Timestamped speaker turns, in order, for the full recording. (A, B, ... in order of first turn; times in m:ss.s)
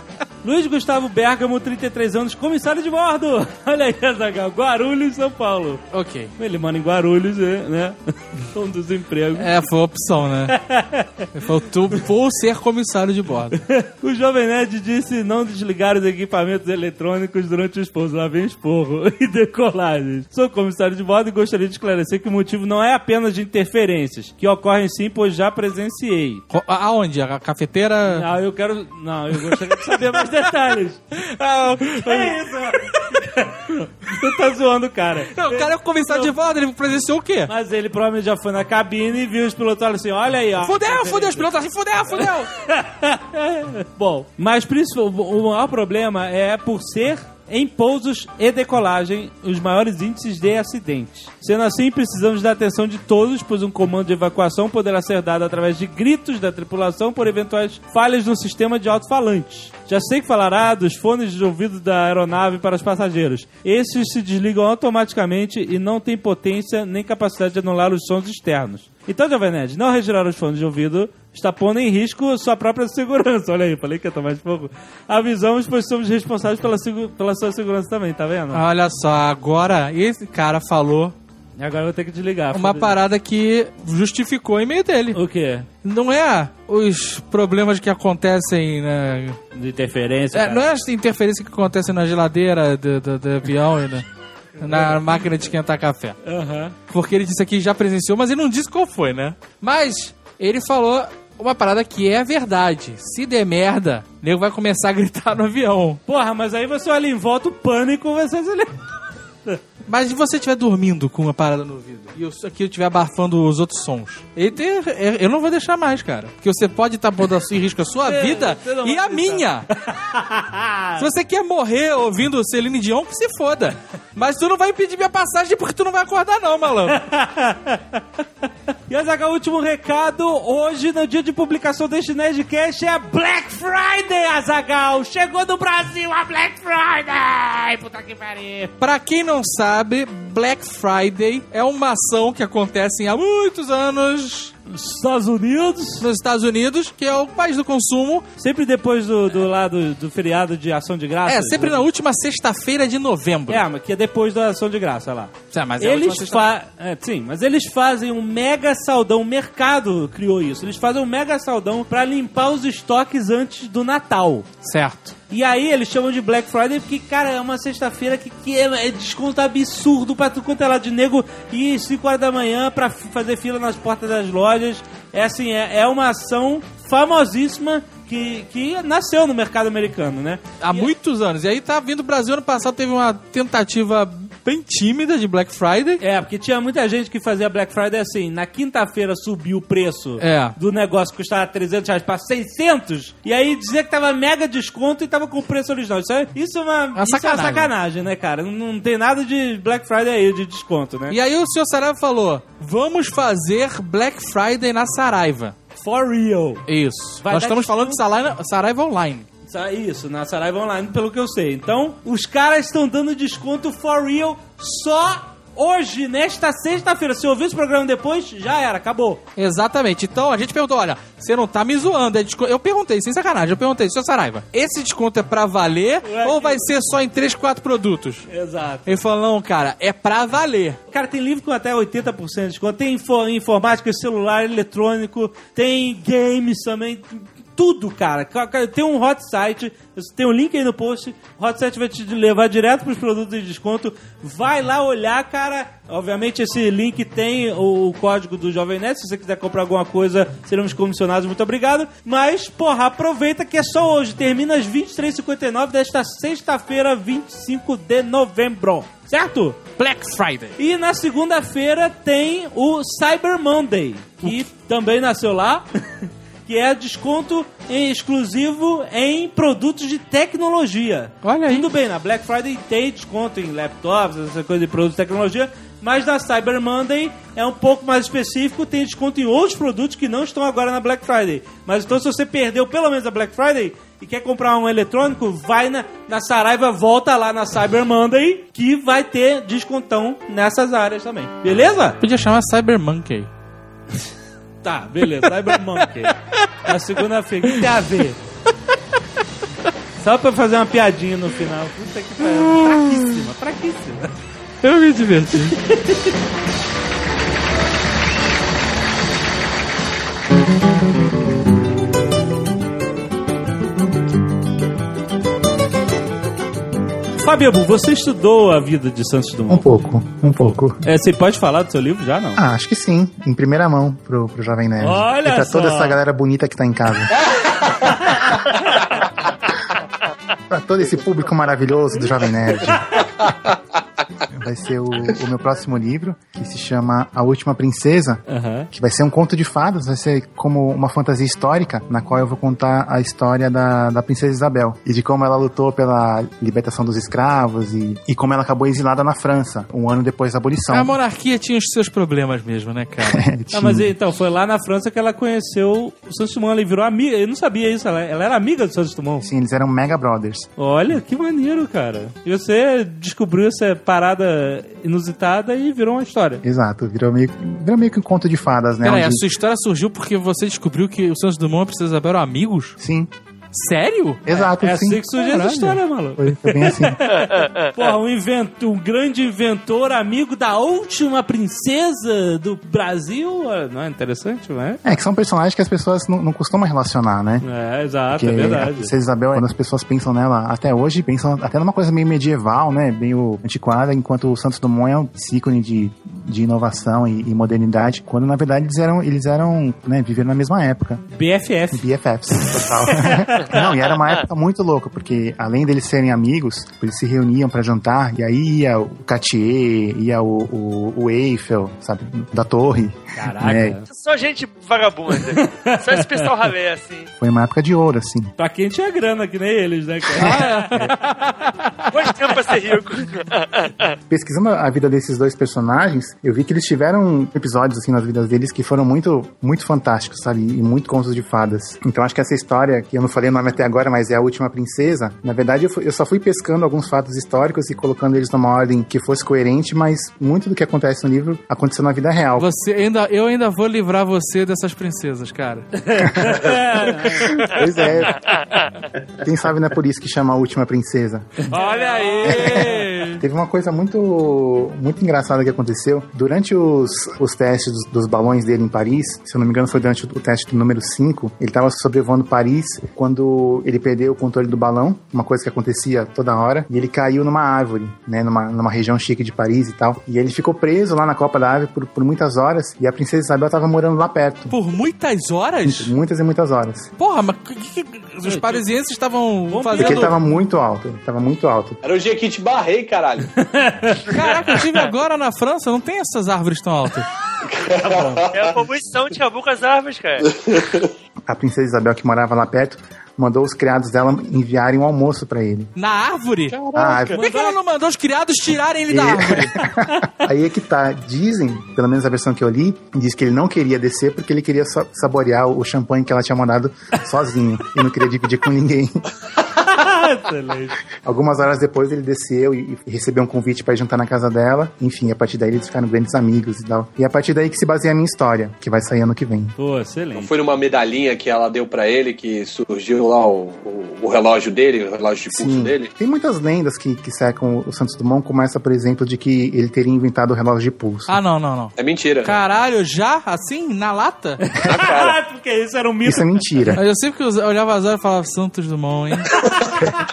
0:00.4-0:05.8 A
0:05.9-0:06.3 B
0:06.4-0:09.5 A
0:09.4-0:10.6 B
0:10.5-0:11.3 A
0:11.3-0:13.6 B
0:13.7-0:26.4 A
0:26.5-0:28.3 B
0:28.1-0:31.0 A
0:29.5-0:30.2 B
0:31.2-0:32.4 B
0:32.0-0:36.3 A
0:35.3-0:37.5 B
0:37.5-0:41.5 A
0:40.6-0:42.5 B
0:42.2-1:18.6 A
1:18.5-1:21.1 B
1:21.6-1:23.0 A
1:22.5-1:25.2 B
1:25.1-1:25.7 A
1:25.8-1:29.4 B
1:29.5-1:30.7 A
1:30.3-1:34.1 B
1:34.6-1:36.2 B
1:34.7-1:35.0 A
1:36.2-1:36.8 A
1:36.9-1:46.0 B
1:46.1-1:48.7 A
1:49.9-1:59.7 B
1:58.0-2:01.0 A
2:01.0-2:07.0 B
2:06.9-2:08.0 A
2:08.9-2:18.7 A
2:18.8-2:24.5 B
2:24.7-2:26.1 A
2:26.0-2:28.3 B
2:28.4-2:31.8 A
2:31.3-2:33.6 B
2:33.5-2:44.5 A
2:35.5-2:36.5 B
2:44.6-2:45.1 B
2:45.3-3:00.9 A
3:00.6-3:06.0 B
3:06.0-3:21.2 A
3:10.2-3:10.6 B
3:17.0-3:17.7 B
3:21.1-3:25.6 B
3:25.8-3:26.6 A
3:26.7-3:29.3 B
3:27.2-3:28.0 A
3:29.5-3:39.2 A
3:39.4-3:48.3 B
3:46.0-3:46.6 A
3:48.3-3:48.9 A
3:48.9-3:50.8 B
3:50.9-4:19.6 A
4:19.8-4:20.6 B
4:20.6-4:52.0 A
4:31.2-4:31.7 B
4:52.0-4:53.3 B
4:54.6-4:58.2 A
5:00.0-5:04.1 A
5:02.4-5:03.1 B
5:04.6-5:05.6 B
5:05.6-5:06.1 A
5:17.2-5:19.7 A
5:19.5-5:20.8 C
5:20.8-5:22.4 A
5:22.4-5:27.2 C
5:24.8-5:26.0 A
5:30.5-5:33.0 C
5:34.3-5:51.0 C
5:38.3-5:38.7 A
5:50.7-5:53.2 B
5:53.0-5:53.9 C
5:53.5-5:59.3 A
5:59.2-6:00.5 C
6:00.6-6:06.4 A
6:06.4-6:09.2 C
6:08.8-6:12.8 B
6:12.8-6:13.1 C
6:13.5-6:14.2 B
6:14.3-6:15.0 C
6:14.3-6:24.8 A
6:15.2-6:15.8 B
6:16.2-6:17.0 C
6:17.4-6:17.7 D
6:24.8-6:27.4 C
6:27.4-6:28.9 A
6:28.1-6:41.0 C
6:41.1-6:41.8 A
6:41.7-6:53.8 C
6:42.5-6:43.5 A
6:53.1-6:53.8 A
6:53.9-6:57.1 D
6:55.3-6:56.3 A
6:57.2-6:58.3 C
6:58.4-7:00.9 A
7:00.2-7:01.5 B
7:01.9-7:03.9 D
7:04.1-7:22.5 C
7:22.4-7:26.3 B
7:25.8-7:27.4 A
7:27.1-7:28.3 C
7:29.2-7:31.4 C
7:31.5-7:32.8 A
7:31.5-7:33.2 B
7:32.2-7:54.6 C
7:54.5-7:55.9 B
7:55.6-7:56.9 C
7:57.0-8:00.1 B
7:58.2-7:58.6 A
7:59.5-8:00.1 A
7:59.8-8:01.8 C
8:01.8-8:03.3 E
8:03.4-8:04.1 A
8:04.1-8:07.1 B
8:07.5-8:08.6 E
8:07.8-8:08.2 A
8:08.3-8:10.3 D
8:10.3-8:10.8 E
8:11.3-8:15.7 C
8:15.8-8:19.5 B
8:16.5-8:17.1 E
8:16.7-8:17.2 C
8:17.1-8:17.6 A
8:18.9-8:29.0 C
8:29.6-8:30.8 A
8:31.0-8:39.6 C
8:39.6-8:40.3 A
8:40.1-8:45.9 E
8:45.3-8:51.1 C
8:51.1-8:54.4 B
8:51.8-8:52.4 E
8:54.4-8:56.3 A
8:54.6-8:55.2 E
8:56.0-8:56.8 C
8:56.8-8:59.4 B